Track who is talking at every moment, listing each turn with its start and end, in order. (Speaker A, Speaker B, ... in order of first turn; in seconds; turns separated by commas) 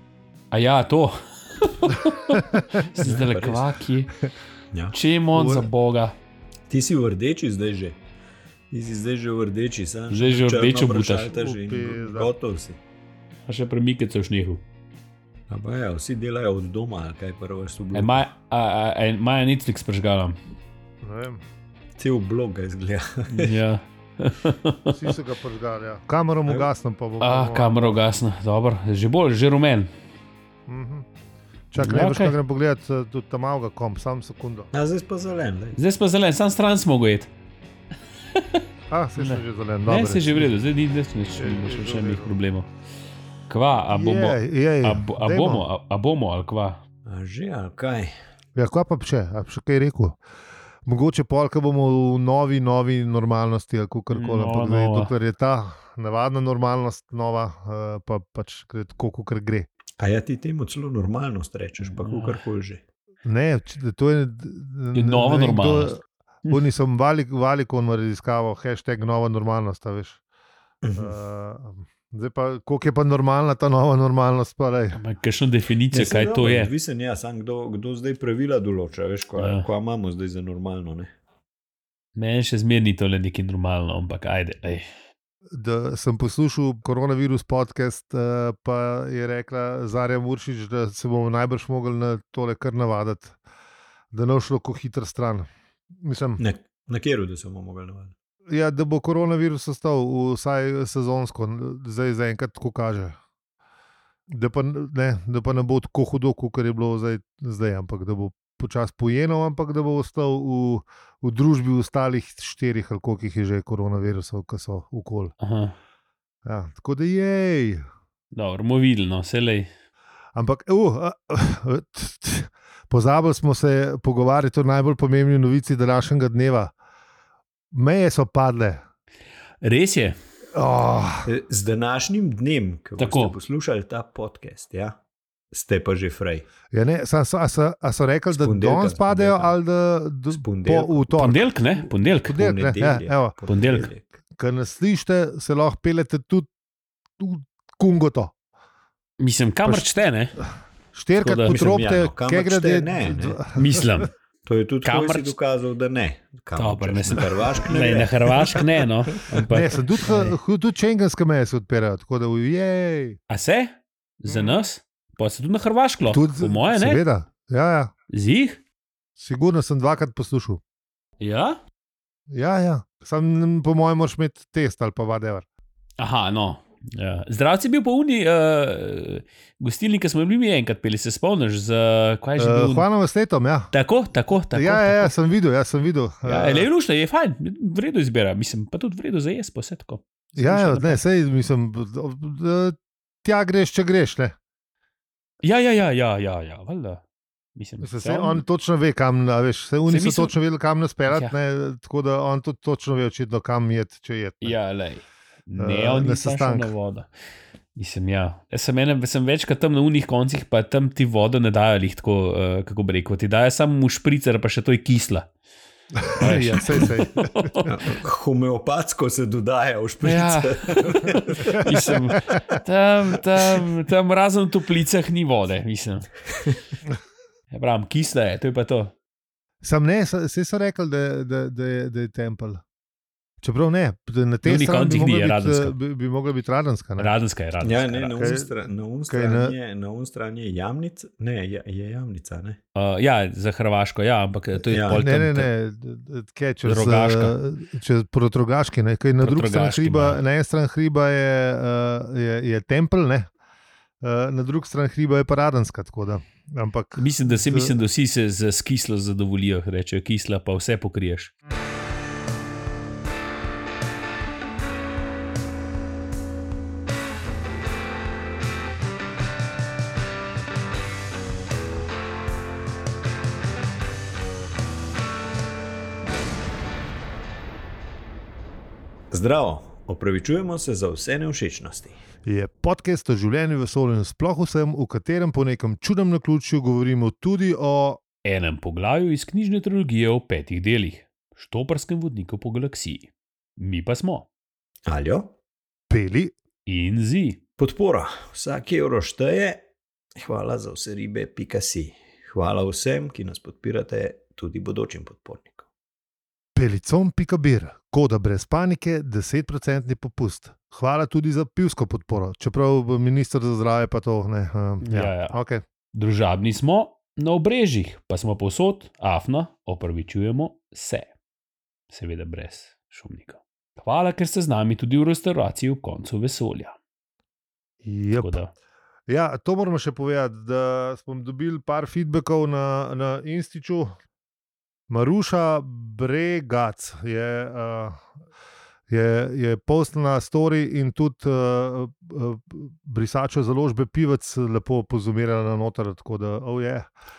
Speaker A: 0.5-4.1, Speaker B: 3.0-3.7, Speaker A: 4.9-6.2, Speaker C: 5.3-5.7, Speaker B: 6.7-8.0, Speaker B: 8.7-12.8, Speaker A: 10.1-11.3, Speaker C: 11.3-12.3, Speaker A: 13.5-14.6, Speaker B: 15.5-18.3, Speaker A: 17.9-20.4, Speaker C: 21.0-21.4, Speaker B: 22.0-23.6, Speaker A: 23.3-25.0, Speaker C: 24.9-28.0, Speaker A: 27.2-29.9, Speaker C: 30.7-31.1, Speaker C: 31.7-34.7, Speaker A: 31.8-32.4, Speaker B: 34.7-35.8, Speaker A: 35.8-37.3, Speaker A: 38.3-38.6, Speaker C: 38.9-40.5, Speaker A: 39.2-42.7, Speaker C: 41.4-42.3, Speaker A: 43.5-46.8, Speaker C: 43.9-45.7, Speaker B: 47.1-48.1, Speaker C: 48.6-50.2, Speaker C: 50.9-59.7, Speaker A: 54.1-55.1, Speaker B: 60.0-62.8, Speaker A: 61.8-62.4, Speaker C: 63.3-70.2, Speaker A: 64.9-66.6, Speaker B: 70.8-71.1, Speaker C: 71.0-75.0, Speaker A: 75.0-76.7, Speaker B: 75.9-81.1, Speaker A: 79.4-79.7, Speaker A: 82.2-84.8, Speaker C: 85.5-93.4, Speaker C: 94.1-96.4, Speaker B: 96.4-98.1, Speaker C: 98.5-103.2, Speaker C: 104.3-115.3, Speaker A: 115.4-115.8, Speaker C: 116.5-117.8, Speaker A: 118.3-119.7, Speaker C: 120.3-126.7, Speaker C: 127.7-128.8, Speaker A: 129.6-130.2, Speaker C: 130.5-131.3, Speaker B: 131.3-135.0, Speaker A: 133.0-133.4, Speaker B: 135.5-136.5, Speaker C: 136.7-143.3, Speaker B: 138.3-139.5, Speaker B: 140.3-141.0, Speaker A: 141.1-142.4, Speaker B: 142.3-144.0, Speaker A: 143.5-143.9, Speaker C: 144.4-146.5, Speaker C: 147.2-148.3, Speaker A: 149.2-150.4, Speaker C: 149.7-150.4, Speaker C: 150.9-154.1, Speaker A: 151.2-151.5, Speaker B: 151.5-153.4, Speaker A: 153.5-154.1, Speaker B: 154.5-159.5, Speaker A: 154.8-155.3, Speaker A: 156.6-160.3, Speaker C: 159.5-163.2, Speaker A: 163.3-167.0, Speaker C: 164.3-164.7, Speaker C: 166.1-167.9, Speaker A: 168.1-168.6, Speaker C: 169.2-170.6, Speaker A: 171.2-171.6, Speaker C: 172.3-175.5, Speaker A: 176.0-182.9, Speaker C: 182.4-183.7, Speaker A: 183.7-185.1, Speaker C: 184.5-186.7, Speaker A: 186.2-191.0, Speaker C: 190.4-194.3, Speaker A: 195.4-197.0, Speaker A: 197.6-198.4, Speaker C: 197.8-204.6, Speaker A: 199.9-200.3, Speaker A: 201.1-201.4, Speaker A: 204.4-207.1, Speaker C: 205.6-206.7, Speaker A: 207.8-215.3, Speaker C: 216.0-217.5, Speaker A: 216.2-217.7, Speaker B: 217.7-221.8, Speaker A: 220.0-226.1, Speaker A: 227.5-228.9, Speaker C: 229.6-232.6, Speaker C: 233.4-237.1, Speaker A: 234.4-235.8, Speaker A: 237.0-238.1, Speaker B: 237.6-242.6, Speaker C: 238.1-238.5, Speaker C: 239.1-239.6, Speaker A: 242.8-245.5, Speaker B: 244.7-245.0, Speaker C: 244.9-253.3, Speaker A: 246.6-247.3, Speaker A: 249.2-250.2, Speaker C: 254.0-257.7, Speaker A: 257.0-261.3, Speaker B: 279.1-282.0, Speaker C: 282.3-288.0, Speaker A: 288.2-294.3, Speaker B: 294.9-295.3, Speaker C: 295.9-296.3, Speaker A: 296.7-297.4, Speaker B: 297.6-299.6, Speaker B: 300.2-305.7, Speaker C: 306.6-315.6, Speaker A: 314.8-315.4, Speaker A: 315.9-321.1, Speaker A: 321.9-326.8, Speaker C: 327.8-328.4, Speaker A: 328.2-328.5, Speaker C: 329.1-333.9, Speaker C: 334.9-338.0, Speaker C: 338.9-346.9